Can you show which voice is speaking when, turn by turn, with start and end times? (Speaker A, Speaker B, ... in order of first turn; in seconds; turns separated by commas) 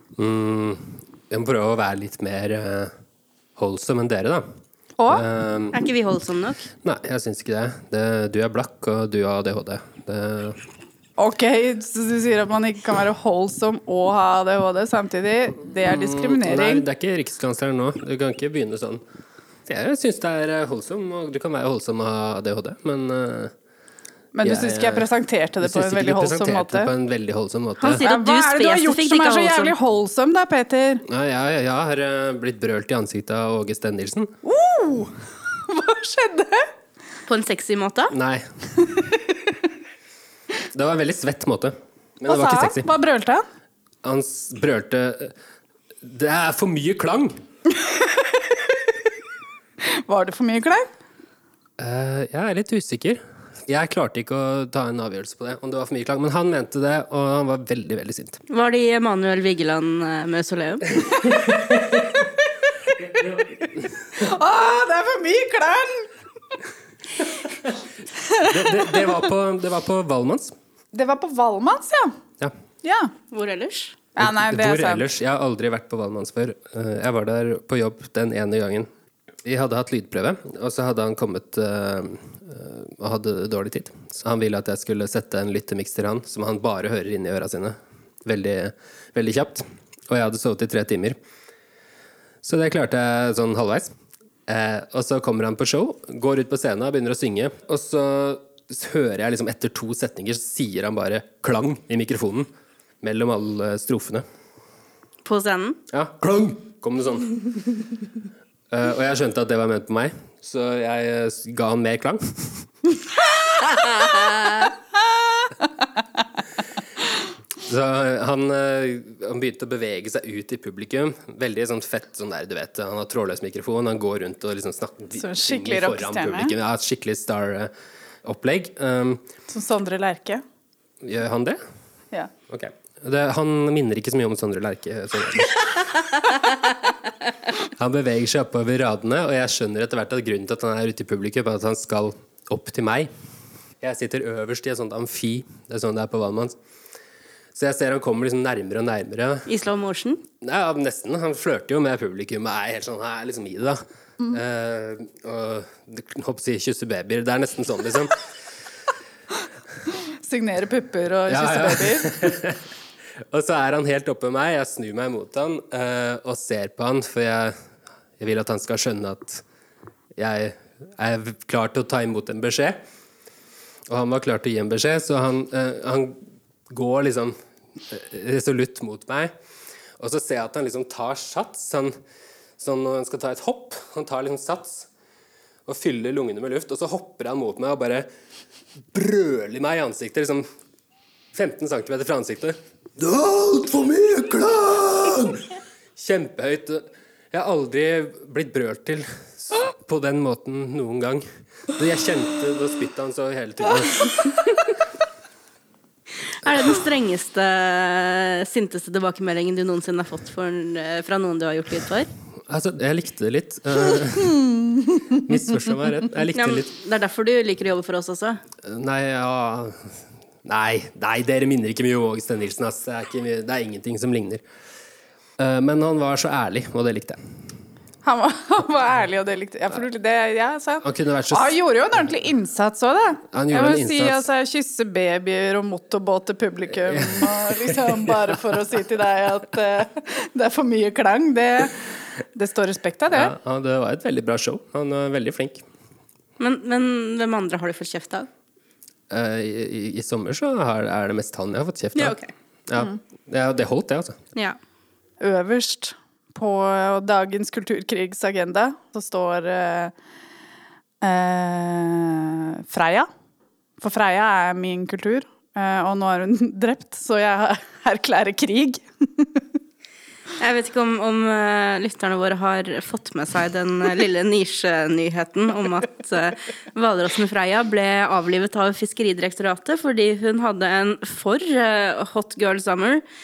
Speaker A: 0.2-2.9, Speaker A: 3.6-4.5, Speaker B: 5.0-5.2, Speaker A: 5.1-5.8, Speaker C: 5.7-6.7, Speaker A: 6.8-10.6, Speaker B: 11.2-16.8, Speaker A: 15.8-19.0, Speaker A: 19.7-23.5, Speaker B: 24.4-26.9, Speaker A: 24.4-25.1, Speaker A: 25.6-28.0, Speaker C: 27.8-29.8, Speaker B: 27.9-31.1, Speaker A: 31.1-34.3, Speaker B: 34.4-36.7, Speaker C: 37.3-38.1, Speaker A: 38.1-38.5, Speaker B: 38.9-39.4, Speaker A: 40.7-42.9, Speaker B: 42.3-43.4, Speaker A: 44.0-45.3, Speaker A: 46.0-47.4, Speaker B: 47.7-48.8, Speaker B: 49.9-50.9, Speaker A: 51.8-58.4, Speaker C: 58.5-61.0, Speaker A: 61.5-61.9, Speaker B: 61.9-62.3, Speaker B: 63.0-66.1, Speaker B: 68.2-69.2, Speaker A: 68.4-70.5, Speaker B: 70.9-72.2, Speaker B: 72.8-73.1, Speaker C: 73.3-74.0, Speaker B: 74.2-75.0, Speaker A: 74.2-78.9, Speaker A: 79.5-91.2, Speaker A: 92.4-93.9, Speaker A: 94.5-102.5, Speaker A: 103.0-104.2, Speaker C: 105.2-105.8, Speaker A: 105.9-107.8, Speaker A: 108.7-112.7, Speaker C: 113.6-114.7, Speaker A: 117.6-127.7, Speaker B: 125.2-126.5, Speaker A: 128.2-129.2, Speaker B: 129.5-130.4, Speaker A: 131.0-131.6, Speaker A: 132.5-136.5, Speaker A: 137.6-143.1, Speaker A: 143.8-146.6, Speaker A: 147.5-149.5, Speaker C: 149.5-150.2, Speaker A: 150.4-158.2, Speaker B: 160.2-162.3, Speaker A: 161.3-162.6, Speaker A: 163.3-167.6, Speaker A: 168.2-169.4, Speaker A: 170.2-172.8, Speaker A: 173.9-176.2, Speaker A: 176.7-177.3, Speaker A: 177.9-179.3, Speaker A: 180.0-181.9, Speaker A: 182.6-184.9, Speaker A: 185.7-188.1, Speaker A: 188.9-190.4, Speaker A: 191.3-204.3, Speaker C: 206.3-212.1, Speaker A: 206.4-206.8, Speaker A: 212.5-214.6, Speaker A: 215.1-216.7, Speaker C: 216.3-218.4, Speaker A: 218.6-224.4, Speaker A: 225.4-227.2, Speaker B: 228.0-241.8, Speaker A: 230.8-231.6, Speaker A: 233.3-234.2, Speaker A: 236.9-238.4, Speaker B: 242.3-243.3, Speaker A: 243.1-245.7, Speaker C: 246.4-248.3, Speaker A: 249.1-252.2, Speaker C: 252.0-252.3, Speaker A: 252.7-254.2, Speaker B: 255.2-259.9, Speaker B: 261.0-263.1, Speaker B: 263.8-269.4, Speaker C: 270.4-283.0